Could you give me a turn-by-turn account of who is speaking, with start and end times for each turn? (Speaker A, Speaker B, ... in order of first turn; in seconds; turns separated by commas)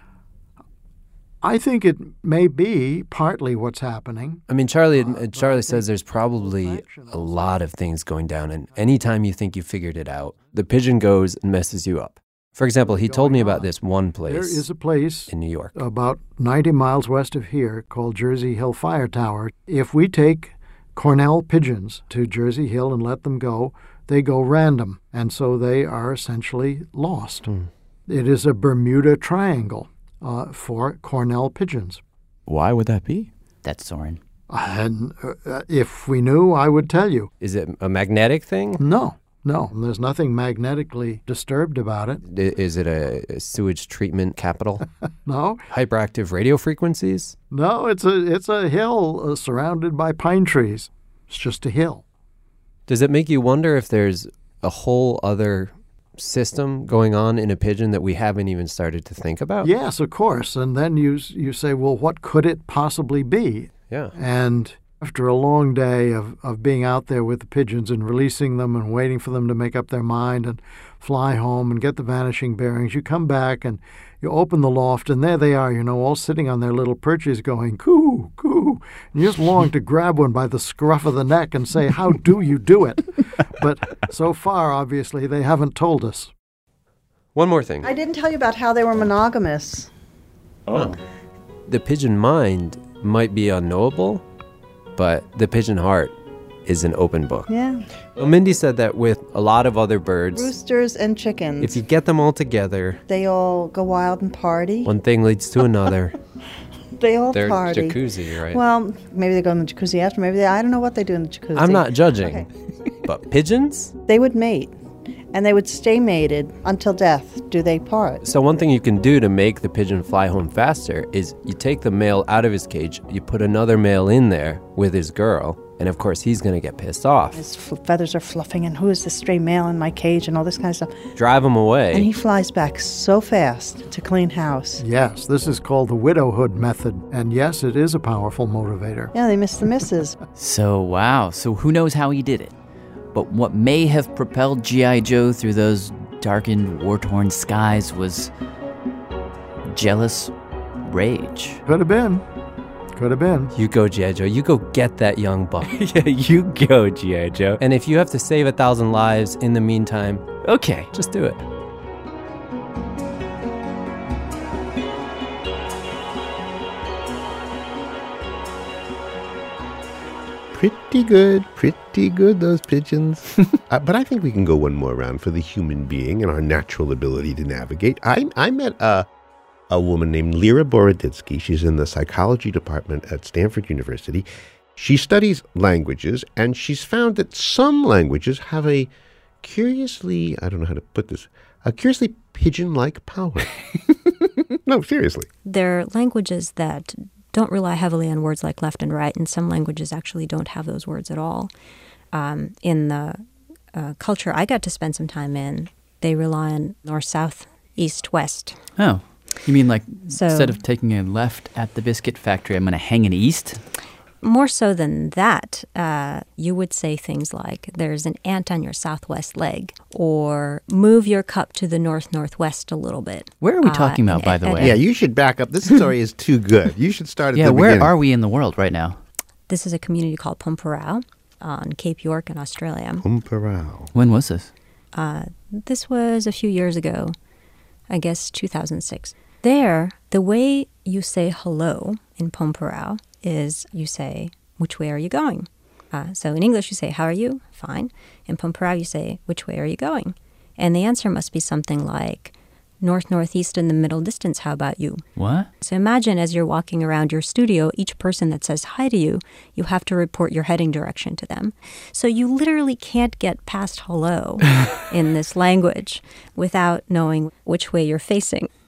Speaker A: 1.4-7.6, Speaker B: 4.5-14.6, Speaker A: 12.8-13.7, Speaker A: 14.2-27.5, Speaker B: 15.3-15.8, Speaker A: 28.1-32.0, Speaker C: 32.5-34.2, Speaker A: 34.5-37.3, Speaker B: 37.4-38.8, Speaker A: 38.8-42.2, Speaker B: 42.3-44.8, Speaker A: 45.3-45.6, Speaker B: 45.7-47.4, Speaker A: 47.5-52.0, Speaker B: 52.9-59.7, Speaker A: 59.6-86.3, Speaker B: 63.9-64.1, Speaker B: 87.3-87.9, Speaker D: 87.8-89.9, Speaker B: 91.7-94.2, Speaker B: 95.0-96.1, Speaker B: 96.7-97.5, Speaker D: 97.5-97.8, Speaker B: 98.2-100.5, Speaker D: 100.3-101.8, Speaker B: 101.6-103.0, Speaker D: 103.1-104.9, Speaker B: 104.8-106.2, Speaker D: 107.0-112.5, Speaker B: 107.3-108.6, Speaker B: 111.5-112.5, Speaker B: 113.0-113.9, Speaker D: 114.1-114.7, Speaker D: 115.3-118.2, Speaker B: 118.2-127.4, Speaker D: 127.3-130.9, Speaker B: 131.2-132.1, Speaker D: 131.9-134.8, Speaker A: 134.8-139.1, Speaker D: 139.1-140.2, Speaker C: 140.4-142.5, Speaker C: 143.1-148.3, Speaker C: 149.7-150.3, Speaker C: 150.8-151.6, Speaker A: 151.7-152.2, Speaker A: 152.9-153.5, Speaker B: 153.5-160.3, Speaker C: 155.8-156.1, Speaker C: 160.5-160.9, Speaker B: 160.9-161.4, Speaker E: 170.5-179.1, Speaker E: 179.7-188.9, Speaker E: 189.4-193.5, Speaker E: 194.7-195.3, Speaker F: 195.5-201.5, Speaker F: 202.1-208.6, Speaker C: 208.8-213.6, Speaker F: 210.1-210.6, Speaker F: 214.2-224.8, Speaker C: 223.4-224.8, Speaker E: 224.6-227.9, Speaker C: 227.3-229.0, Speaker F: 229.5-233.1, Speaker E: 233.0-233.9, Speaker C: 233.9-234.5, Speaker F: 234.9-237.2, Speaker F: 237.9-255.1, Speaker C: 255.2-255.5, Speaker F: 255.6-268.5